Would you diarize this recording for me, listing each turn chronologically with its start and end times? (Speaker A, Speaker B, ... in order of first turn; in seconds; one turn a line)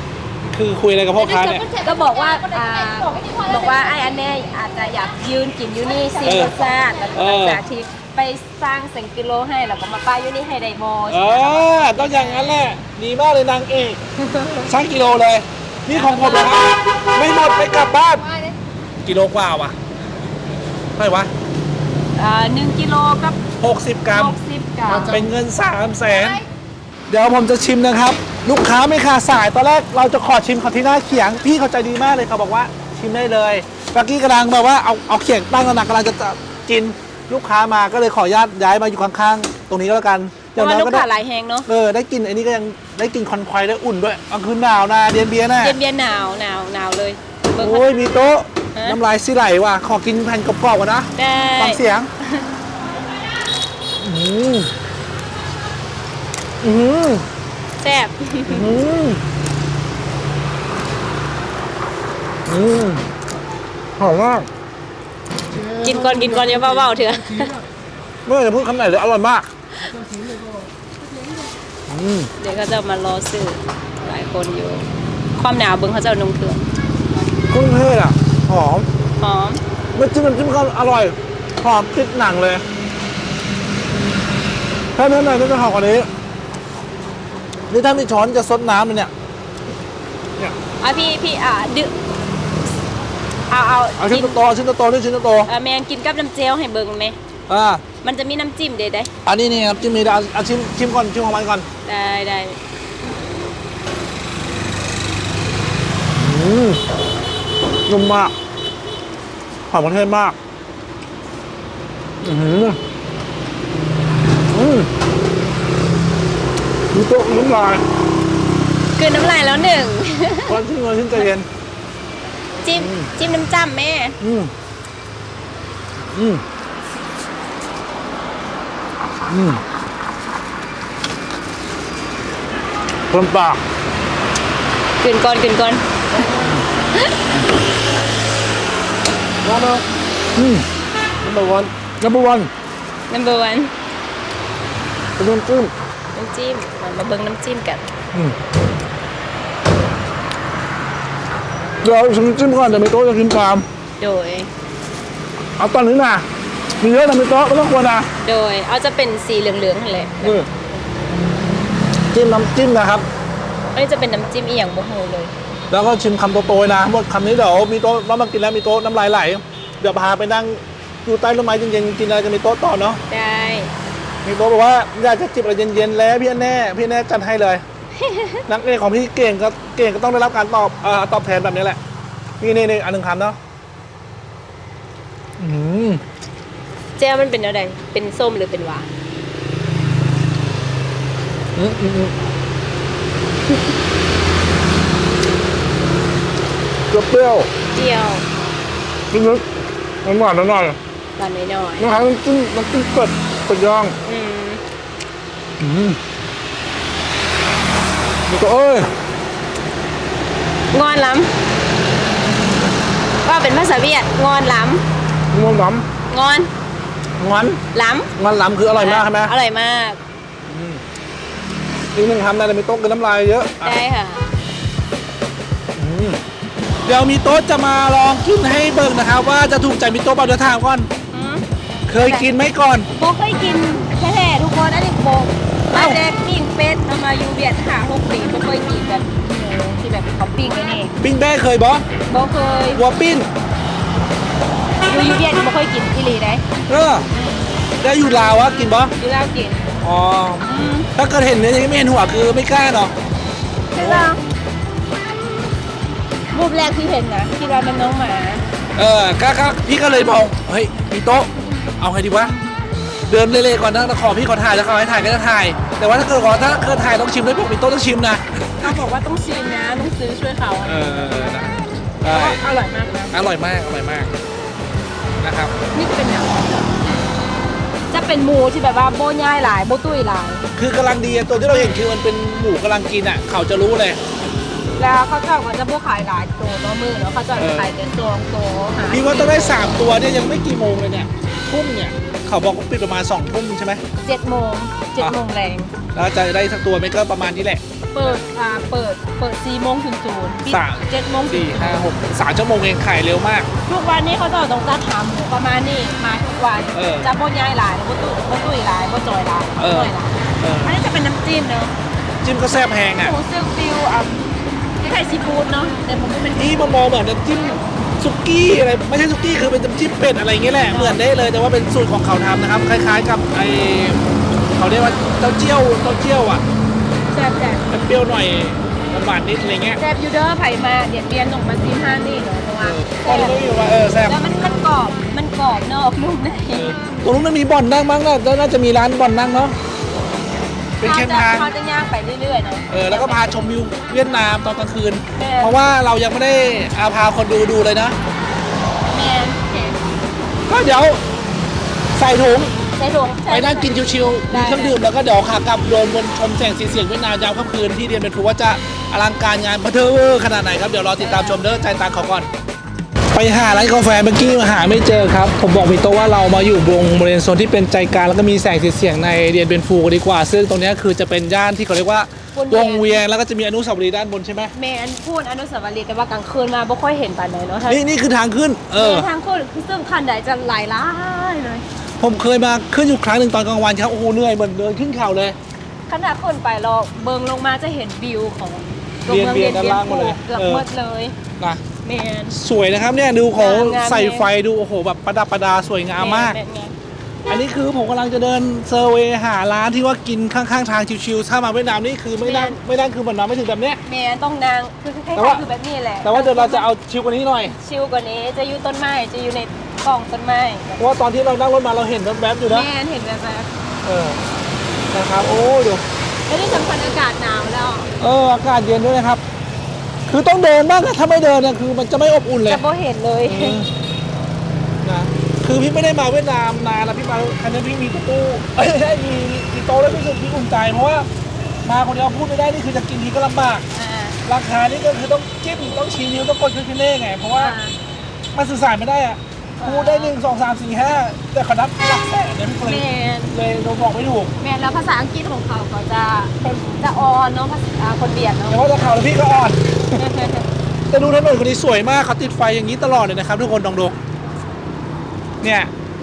Speaker A: 0.5-1.6
Speaker B: 1.2-4.7
Speaker C: 1.3-12.6
Speaker B: 5.8-7.3
Speaker A: 6.2-6.5
Speaker A: 7.1-7.6
Speaker A: 11.1-18.2
Speaker C: 15.9-16.6
Speaker B: 18.1-18.6
Speaker A: 19.0-19.8
Speaker A: 21.0-21.3
Speaker C: 22.2-23.4
Speaker A: 23.6-24.4
Speaker C: 24.1-25.2
Speaker D: 24.9-25.4
Speaker A: 25.1-26.4
Speaker B: 26.0-26.4
Speaker A: 27.1-41.0
Speaker C: 40.6-41.7
Speaker A: 41.7-45.8
Speaker C: 45.6-47.9
Speaker A: 47.6-52.1
Speaker C: 51.2-52.5
Speaker A: 54.0-54.7
Speaker A: 56.6-57.3
Speaker C: 57.8-58.7
Speaker A: 58.5-59.2
Speaker A: 62.5-63.1
Speaker A: 64.0-64.5
Speaker D: 65.4-67.7
Speaker C: 65.8-67.5
Speaker A: 68.3-69.5
Speaker D: 69.8-71.3
Speaker A: 71.9-72.3
Speaker C: 72.4-74.9
Speaker C: 75.4-76.7
Speaker A: 77.5-78.9
Speaker C: 79.2-79.6
Speaker A: 79.9-82.6
Speaker A: 85.0-86.1
Speaker A: 87.7-89.1
Speaker C: 90.8-91.9
Speaker C: 93.5-94.4
Speaker A: 94.0-95.5
Speaker C: 95.5-97.2
Speaker A: 97.5-97.8
Speaker C: 98.0-99.1
Speaker A: 99.3-101.7
Speaker C: 101.9-102.6
Speaker A: 106.2-106.8
Speaker A: 107.9-108.3
Speaker A: 109.7-110.4
Speaker A: 112.2-112.8
Speaker A: 114.5-114.9
Speaker A: 116.9-117.8
Speaker C: 119.0-120.6
Speaker A: 120.5-121.5
Speaker C: 122.6-124.2
Speaker A: 122.8-123.1
Speaker A: 124.2-124.5
Speaker A: 126.1-126.4
Speaker A: 129.3-129.6
Speaker A: 133.1-133.6
Speaker C: 135.0-135.8
Speaker D: 139.4-139.9
Speaker A: 140.3-140.7
Speaker D: 141.2-141.7
Speaker A: 142.0-142.5
Speaker C: 143.1-143.7
Speaker A: 145.2-145.7
Speaker C: 146.1-147.9
Speaker A: 151.8-153.7
Speaker C: 154.0-154.5
Speaker A: 155.6-156.3
Speaker A: 156.8-158.1
Speaker C: 158.2-160.4
Speaker A: 160.2-160.5
Speaker A: 162.1-163.1
Speaker C: 163.8-165.3
Speaker A: 165.7-173.0
Speaker C: 173.1-173.7
Speaker A: 174.2-177.6
Speaker C: 178.0-178.4
Speaker A: 178.5-181.8
Speaker A: 182.4-183.4
Speaker A: 185.4-186.0
Speaker C: 187.0-188.9
Speaker A: 191.6-192.2
Speaker A: 196.9-197.5
Speaker C: 197.7-198.2
Speaker A: 199.1-199.5
Speaker A: 200.0-200.8
Speaker C: 201.2-201.9
Speaker A: 201.8-204.0
Speaker C: 204.0-204.6
Speaker A: 205.6-206.0
Speaker A: 208.3-208.9
Speaker C: 210.7-211.3
Speaker C: 213.2-214.8
Speaker A: 215.3-215.9
Speaker C: 216.1-216.5
Speaker A: 217.2-217.6
Speaker C: 217.7-218.1
Speaker A: 218.2-219.3
Speaker C: 218.8-220.0
Speaker A: 220.5-220.8
Speaker A: 221.9-223.8
Speaker C: 223.6-224.3
Speaker A: 225.8-226.2
Speaker A: 226.8-230.9
Speaker C: 231.1-231.4
Speaker A: 231.9-232.9
Speaker C: 232.0-232.3
Speaker C: 232.9-240.9
Speaker A: 235.7-236.0
Speaker A: 241.0-241.9
Speaker C: 242.1-242.8
Speaker A: 242.8-243.3
Speaker C: 244.8-246.4
Speaker A: 246.7-247.1
Speaker C: 247.1-247.5
Speaker A: 247.8-248.9
Speaker C: 248.1-249.7
Speaker A: 249.8-252.9
Speaker C: 250.4-250.9
Speaker C: 253.8-254.2
Speaker A: 253.8-254.2
Speaker C: 256.3-258.4
Speaker A: 258.8-262.3
Speaker A: 263.1-268.8
Speaker C: 268.6-271.6
Speaker A: 270.6-272.4
Speaker C: 272.1-273.1
Speaker A: 273.1-274.1
Speaker A: 275.2-275.6
Speaker C: 275.7-276.8
Speaker C: 277.9-280.5
Speaker A: 280.6-284.0
Speaker C: 281.5-281.8
Speaker C: 284.8-289.8
Speaker A: 287.4-287.7
Speaker A: 288.9-293.8
Speaker C: 294.0-295.7
Speaker A: 295.9-297.6
Speaker C: 297.9-301.9
Speaker A: 300.5-303.5
Speaker C: 303.7-311.7
Speaker A: 306.7-307.1
Speaker A: 309.6-310.8
Speaker A: 312.2-313.2
Speaker C: 313.0-314.3
Speaker C: 314.8-316.8
Speaker A: 316.4-324.0
Speaker C: 320.7-321.0
Speaker A: 324.5-326.4
Speaker C: 327.1-327.7
Speaker A: 327.7-329.8
Speaker C: 329.8-333.4
Speaker A: 332.6-334.2
Speaker C: 334.1-336.7
Speaker A: 336.6-339.6
Speaker A: 340.8-341.5
Speaker C: 340.8-343.2
Speaker A: 342.7-348.0
Speaker C: 345.2-345.6
Speaker C: 348.9-349.8
Speaker A: 350.5-351.0
Speaker A: 352.0-352.6
Speaker C: 352.8-354.8
Speaker A: 353.3-362.3
Speaker C: 361.0-361.4
Speaker A: 363.1-374.5
Speaker C: 363.4-363.8
Speaker C: 372.3-373.0
Speaker C: 374.6-377.8
Speaker A: 377.7-379.1
Speaker C: 378.8-381.6
Speaker A: 382.0-385.4
Speaker C: 385.9-391.2
Speaker A: 389.1-390.6
Speaker C: 391.8-392.4
Speaker A: 392.3-396.4
Speaker C: 393.4-394.3
Speaker C: 396.0-396.8
Speaker A: 397.3-403.8
Speaker C: 402.2-402.6
Speaker C: 403.9-406.7
Speaker A: 405.1-405.4
Speaker A: 406.0-407.6
Speaker C: 407.6-410.8
Speaker A: 410.8-412.7
Speaker C: 412.5-413.5
Speaker A: 413.9-414.2
Speaker A: 414.9-415.8
Speaker C: 416.3-417.9
Speaker A: 418.0-419.2
Speaker A: 420.1-422.6
Speaker C: 422.5-423.6
Speaker A: 423.3-423.7
Speaker A: 424.8-431.1
Speaker A: 431.6-433.7
Speaker C: 433.7-434.2
Speaker A: 434.2-437.6
Speaker C: 437.4-437.7
Speaker A: 438.4-444.3
Speaker C: 439.6-440.1
Speaker C: 442.6-443.3
Speaker C: 444.4-448.6
Speaker A: 448.5-450.0
Speaker C: 450.0-450.5
Speaker A: 450.9-454.0
Speaker A: 455.4-455.7